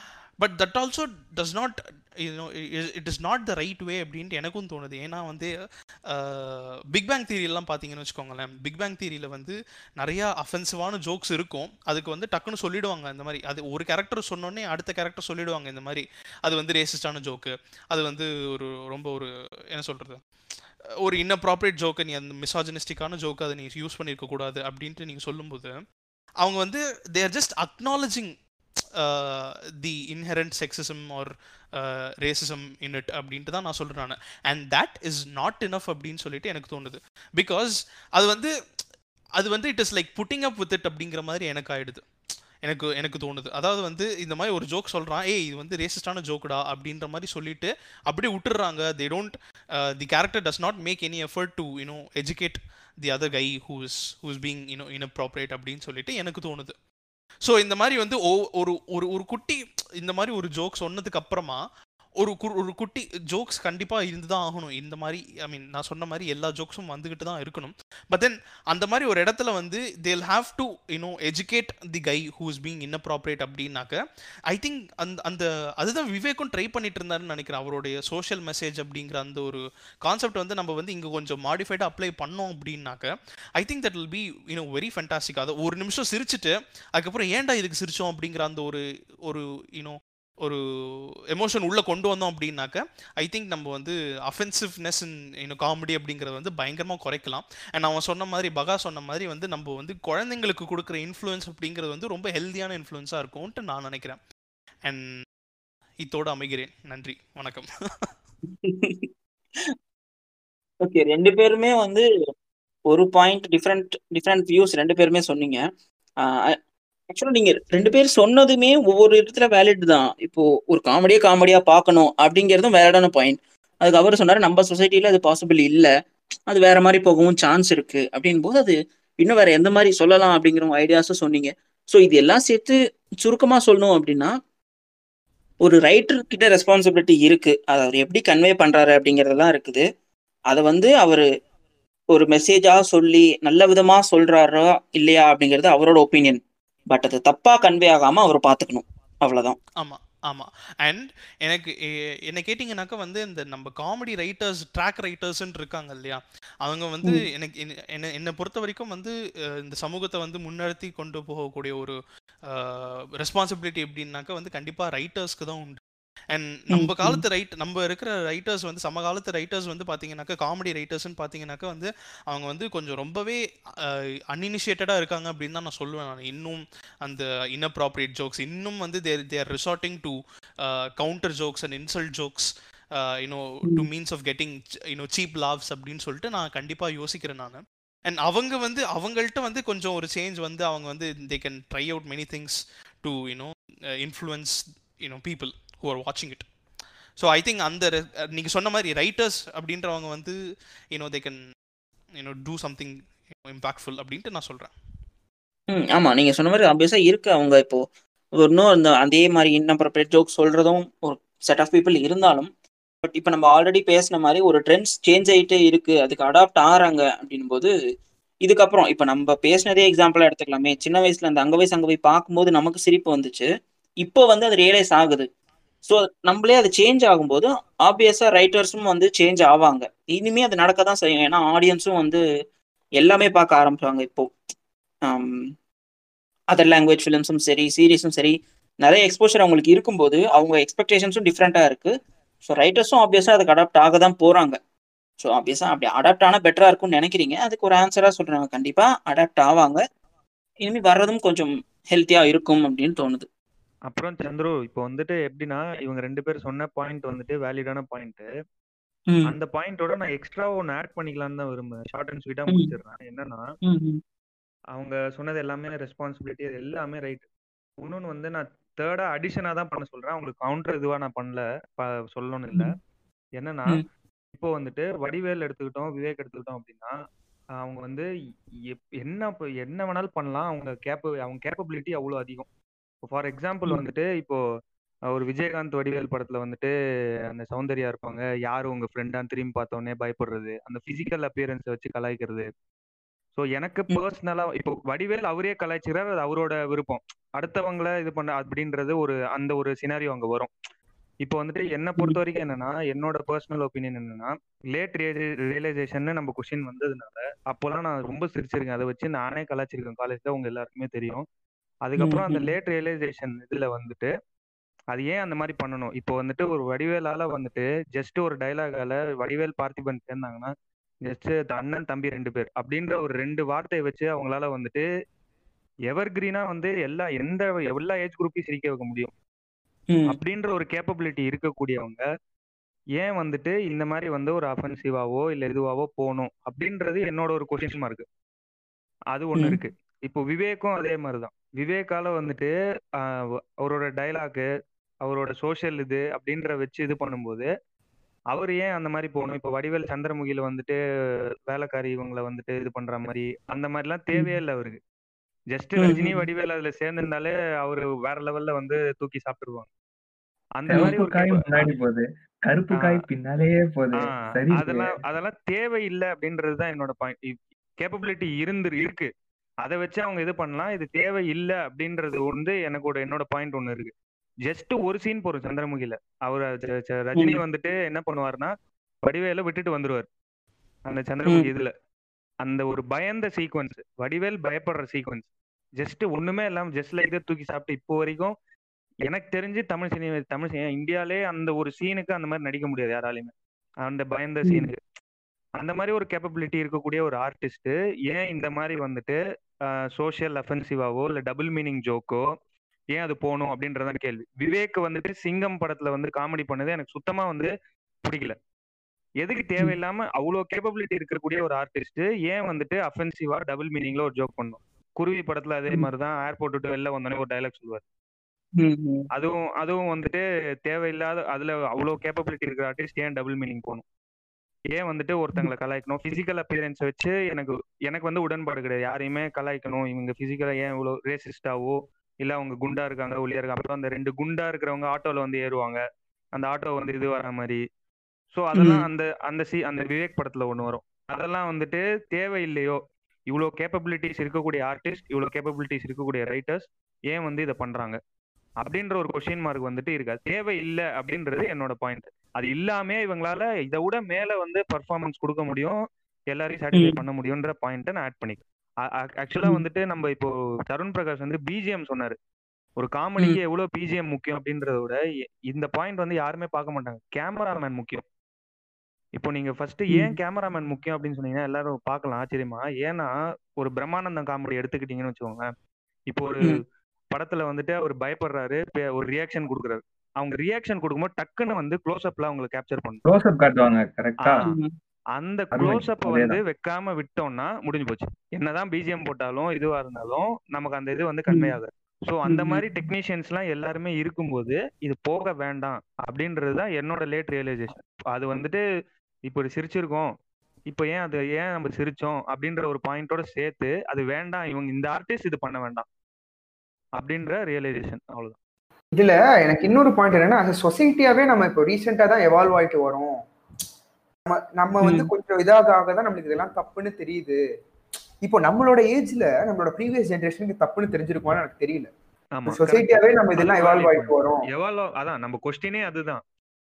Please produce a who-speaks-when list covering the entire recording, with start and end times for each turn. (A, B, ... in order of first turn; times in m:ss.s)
0:00.4-0:05.5 A
0:06.1-0:20.2 A
0:21.0-0:25.7 A
0:26.4-0:28.3 A
0:29.0-0:38.5 A
0:39.4-0:42.0 A
0:42.6-0:56.7 A
0:57.4-1:01.6 A
1:02.2-1:14.0 A
1:14.5-1:30.6 A
1:31.3-1:44.2 A
1:44.8-1:45.2 A
1:46.0-1:48.1 A
1:48.5-1:49.1 B
1:50.8-1:52.0 B
1:52.9-1:55.6 B
1:56.2-1:56.6 B
1:57.1-2:05.9 B
2:06.5-2:14.3 B
2:15.6-2:19.8 B
2:20.5-2:21.2 B
2:22.1-2:26.4 B
2:26.9-2:29.6 B
2:29.8-2:31.8 A
2:32.3-2:45.8 A
2:46.3-3:16.5 A
2:46.7-2:47.2 B
3:17.2-3:20.4 A
3:20.9-3:21.4 A
3:22.2-3:24.7 A
3:25.7-3:27.8 B
3:28.4-3:32.5 B
3:33.0-3:37.7 B
3:38.4-3:43.5 B
3:44.0-3:45.3 B
3:45.8-3:52.2 B
3:53.0-3:54.3 B
3:55.1-3:55.4 B
3:56.5-4:01.9 B
4:02.5-4:04.6 B
4:05.2-4:09.8 B
4:10.6-4:13.2 B
4:13.9-4:18.3 C
4:19.2-4:23.4 C
4:23.6-4:24.0 B
4:24.7-4:27.2 C
4:27.8-4:32.8 C
4:33.4-4:36.9 C
4:37.6-4:38.1 C
4:38.7-4:42.5 C
4:43.0-4:44.4 C
4:45.1-4:46.7 C
4:47.3-4:52.5 C
4:53.4-5:00.5 C
5:01.2-5:11.2 C
5:11.8-5:14.1 C
5:12.0-5:12.5 B
5:14.9-5:20.5 C
5:21.0-5:24.8 C
5:25.9-5:29.1 C
5:30.1-5:32.0 C
5:33.0-5:38.0 C
5:39.1-5:42.5 C
5:43.6-5:44.4 C
5:45.0-5:47.5 C
5:48.3-5:50.8 C
5:51.5-5:54.8 C
5:55.5-5:59.7 C
5:55.8-5:56.2 B
6:00.6-6:01.7 C
6:00.7-6:05.0 D
6:02.7-6:03.0 C
6:04.0-6:09.1 C
6:09.6-6:13.9 C
6:14.4-6:18.5 C
6:19.0-6:20.1 C
6:20.9-6:21.7 C
6:22.4-6:28.3 C
6:29.0-6:33.3 C
6:33.8-6:34.8 C
6:35.6-6:39.2 C
6:40.0-6:42.2 C
6:42.9-6:47.5 C
6:48.0-6:48.4 C
6:49.2-6:57.8 C
6:58.6-6:59.1 B
6:59.1-7:03.8 C
7:04.7-7:15.8 C
7:16.3-7:17.6 C
7:18.3-7:28.0 C
7:18.6-7:18.8 B
7:28.6-7:35.8 C
7:36.3-7:38.4 C
7:38.9-7:42.2 C
7:42.8-7:48.0 C
7:49.2-7:55.5 C
7:56.1-8:03.0 C
8:03.0-8:04.4 D
8:04.2-8:04.6 C
8:05.2-8:18.6 C
8:05.5-8:06.4 D
8:11.3-8:11.5 B
8:12.3-8:12.6 B
8:19.3-8:20.1 C
8:20.7-8:25.8 C
8:27.0-8:28.4 C
8:28.9-8:33.2 E
8:34.3-8:37.4 E
8:34.8-8:35.1 B
8:38.2-8:41.9 E
8:42.4-8:46.2 C
8:42.5-8:44.4 E